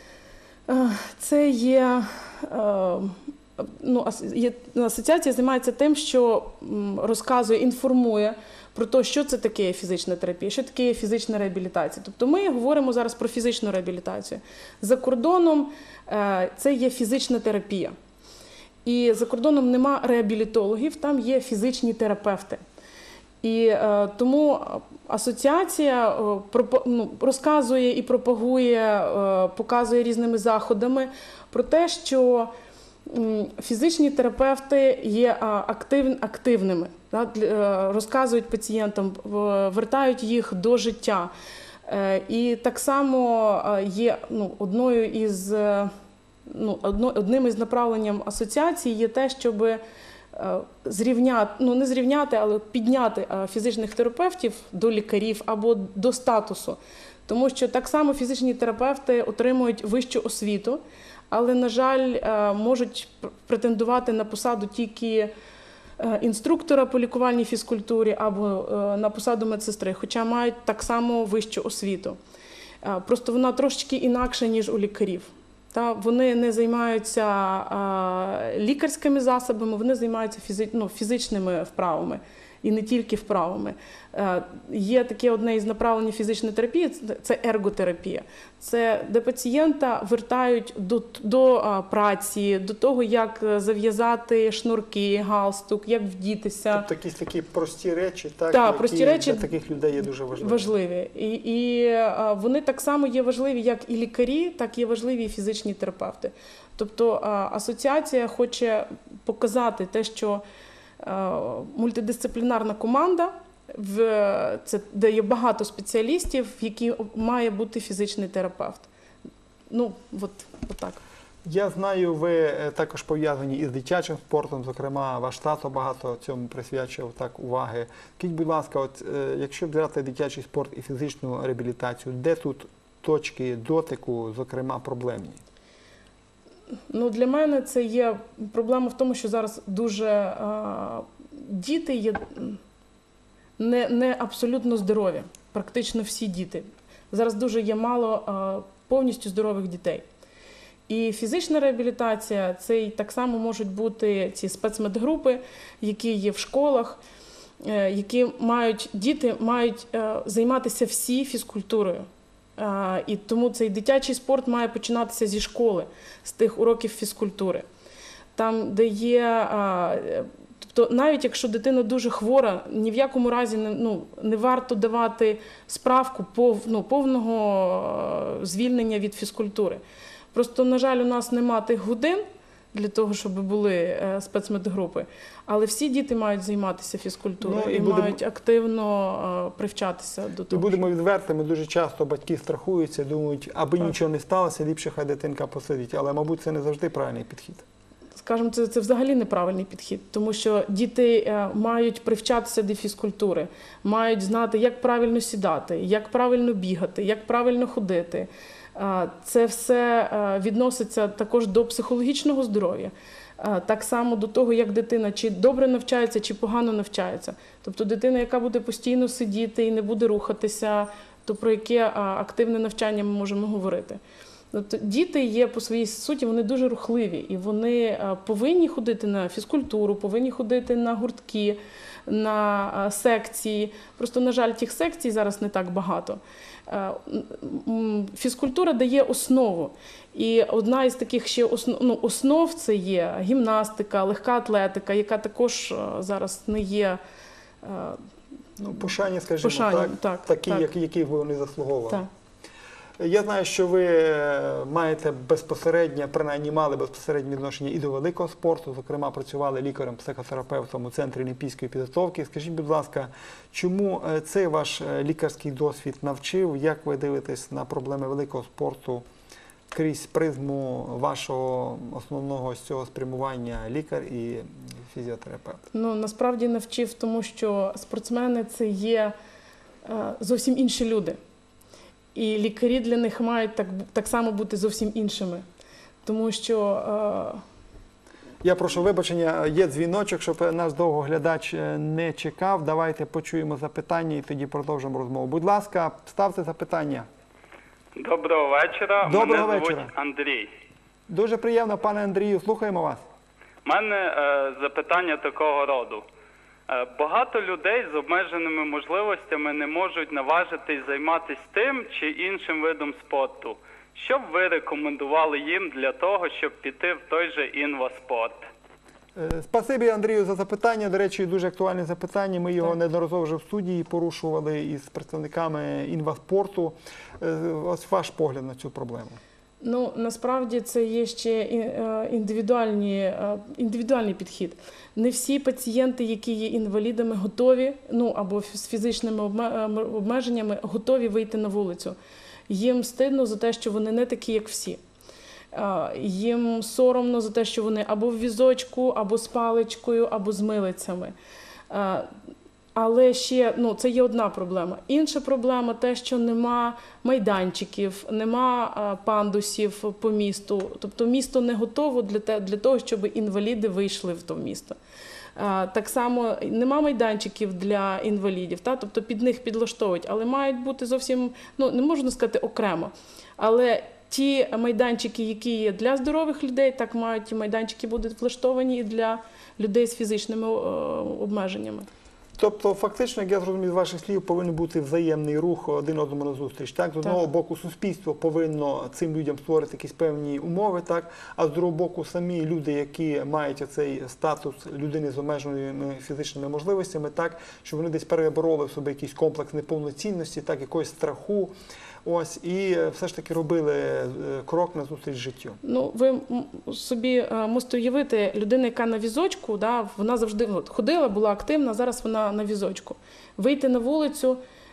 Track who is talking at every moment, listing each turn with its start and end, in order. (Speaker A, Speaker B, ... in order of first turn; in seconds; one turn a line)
Speaker A: 0.7-17.9
Speaker A: 18.8-22.6
Speaker A: 23.4-32.5
Speaker A: 33.1-41.3
Speaker A: 41.9-45.9
Speaker A: 46.5-49.8
Speaker A: 50.3-60.8
Speaker A: 61.3-65.3
Speaker A: 66.0-72.2
Speaker A: 72.8-96.8
Speaker B: 96.7-100.7
Speaker A: 98.5-99.5
Speaker A: 100.3-110.4
Speaker A: 111.0-118.9
Speaker A: 119.7-121.0
Speaker B: 121.4-135.4
Speaker A: 136.9-142.6
Speaker A: 143.6-150.1
Speaker A: 150.9-157.0
Speaker A: 157.6-162.1
Speaker A: 162.6-167.7
Speaker A: 168.3-179.8
Speaker A: 180.3-190.9
Speaker B: 187.4-188.2
Speaker B: 190.5-197.6
Speaker A: 198.2-224.0
Speaker A: 224.5-247.0
Speaker A: 247.6-248.0
Speaker B: 248.6-252.0
Speaker A: 249.4-250.7
Speaker B: 253.0-269.0
Speaker B: 269.7-275.6
Speaker A: 275.7-279.1
Speaker A: 279.9-281.2
Speaker A: 282.1-285.4
Speaker A: 286.0-287.4
Speaker B: 288.4-297.1
Speaker C: 297.9-300.5
Speaker B: 299.0-299.9
Speaker B: 301.1-303.0
Speaker C: 303.6-306.1
Speaker C: 306.7-318.4
Speaker B: 319.1-329.2
Speaker A: 329.6-341.9
Speaker A: 342.5-344.8
Speaker A: 345.5-351.1
Speaker A: 351.7-352.1
Speaker A: 352.8-364.8
Speaker A: 365.4-381.9
Speaker B: 382.4-401.5
Speaker B: 402.0-405.6
Speaker A: 405.6-414.4